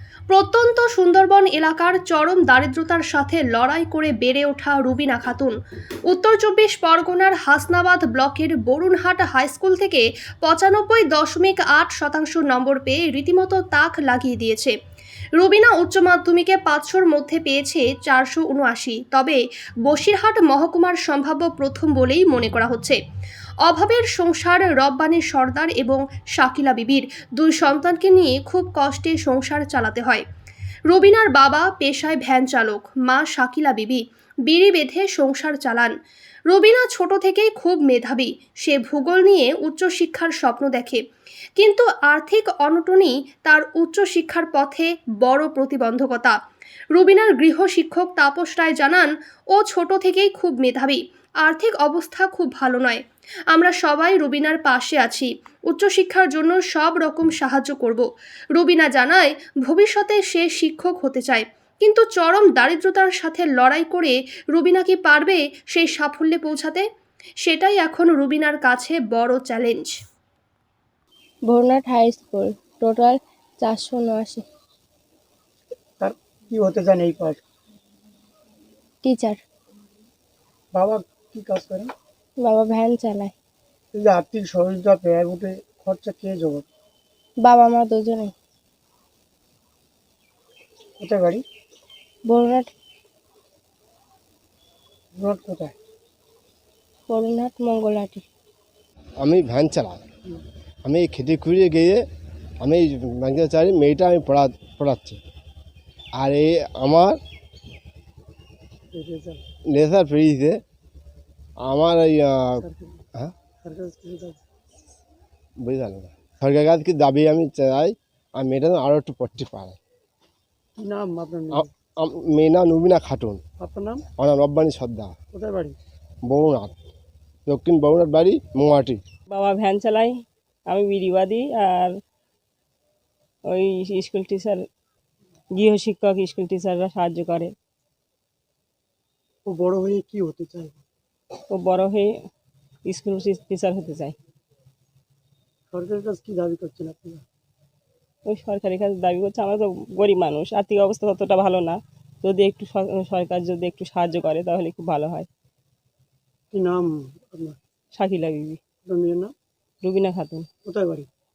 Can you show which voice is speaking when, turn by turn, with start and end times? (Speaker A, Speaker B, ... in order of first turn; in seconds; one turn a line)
Speaker A: 0.3-5.6
Speaker A: 6.1-14.8
Speaker A: 15.4-23.0
Speaker A: 23.6-30.2
Speaker A: 30.9-35.9
Speaker A: 36.5-41.0
Speaker A: 41.6-46.4
Speaker A: 47.0-66.8
Speaker A: 67.4-69.9
Speaker B: 71.5-74.4
Speaker C: 76.0-77.4
Speaker B: 79.0-79.4
Speaker C: 80.7-81.9
Speaker B: 82.4-83.3
Speaker C: 83.9-86.7
Speaker B: 87.4-88.3
Speaker C: 91.0-91.4
Speaker B: 92.3-92.7
Speaker C: 95.1-95.8
Speaker B: 97.1-98.2
Speaker D: 99.2-100.0
Speaker D: 100.8-102.0
Speaker D: 102.6-105.2
Speaker D: 106.2-107.2
Speaker C: 108.9-109.4
Speaker D: 109.7-110.6
Speaker D: 111.7-112.6
Speaker C: 112.6-113.0
Speaker C: 113.6-114.4
Speaker D: 115.6-119.8
Speaker C: 120.8-121.7
Speaker D: 121.5-123.4
Speaker C: 123.6-124.0
Speaker D: 124.2-125.2
Speaker C: 125.3-125.8
Speaker D: 126.3-126.7
Speaker D: 127.5-129.0
Speaker E: 129.3-130.1
Speaker E: 130.7-131.9
Speaker E: 133.5-134.6
Speaker E: 135.5-137.5
Speaker C: 139.4-140.8
Speaker E: 141.5-142.1
Speaker E: 142.9-144.2
Speaker C: 145.7-147.2
Speaker E: 148.3-155.3
Speaker C: 156.5-157.6
Speaker E: 157.9-158.6
Speaker C: 158.8-159.3
Speaker E: 159.8-160.5
Speaker C: 160.7-161.1